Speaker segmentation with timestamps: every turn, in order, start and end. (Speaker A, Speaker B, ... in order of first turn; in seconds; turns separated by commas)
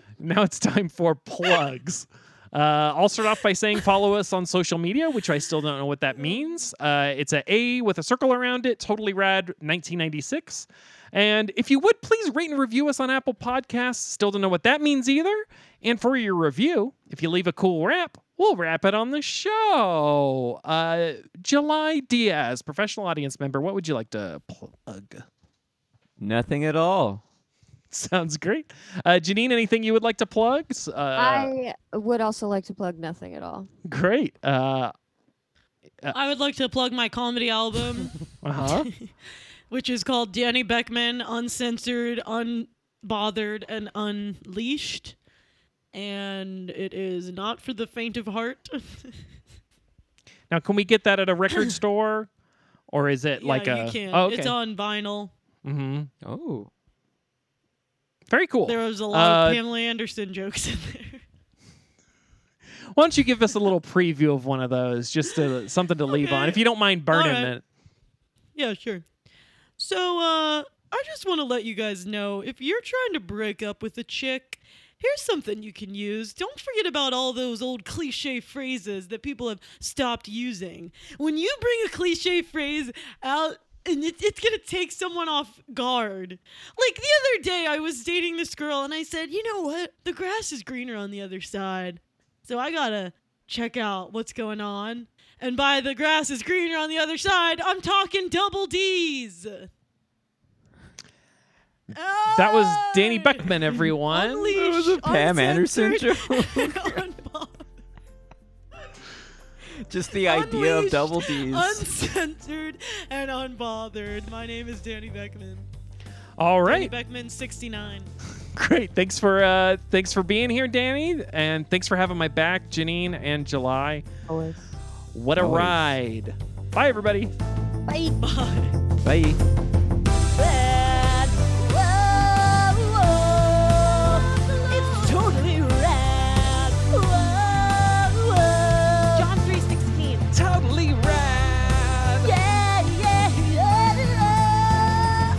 Speaker A: 0.2-25.2, Speaker B: 26.2-27.2, Speaker A: 27.9-31.5, Speaker C: 31.1-33.7, Speaker A: 33.9-34.9, Speaker D: 36.1-39.1, Speaker A: 38.3-38.9, Speaker D: 39.7-45.1, Speaker D: 45.9-49.1, Speaker A: 50.5-52.3, Speaker A: 52.9-54.5, Speaker D: 53.4-55.3, Speaker A: 55.6-56.1, Speaker B: 56.2-56.7, Speaker A: 58.3-59.6, Speaker D: 58.7-61.2, Speaker A: 62.9-67.6, Speaker D: 66.1-66.6, Speaker D: 67.1-67.5, Speaker D: 68.5-69.0, Speaker D: 69.8-99.7, Speaker D: 101.9-107.7, Speaker A: 102.3-104.5, Speaker B: 104.5-107.0, Speaker B: 109.7-111.8, Speaker D: 110.2-115.7, Speaker A: 116.4-116.9, Speaker D: 116.7-118.1, Speaker A: 118.5-124.0, Speaker C: 124.3-124.8, Speaker A: 125.1-127.3, Speaker B: 125.4-125.8, Speaker D: 127.9-128.8, Speaker B: 129.0-129.4, Speaker D: 134.7-135.7, Speaker D: 139.1-140.2, Speaker A: 140.3-142.3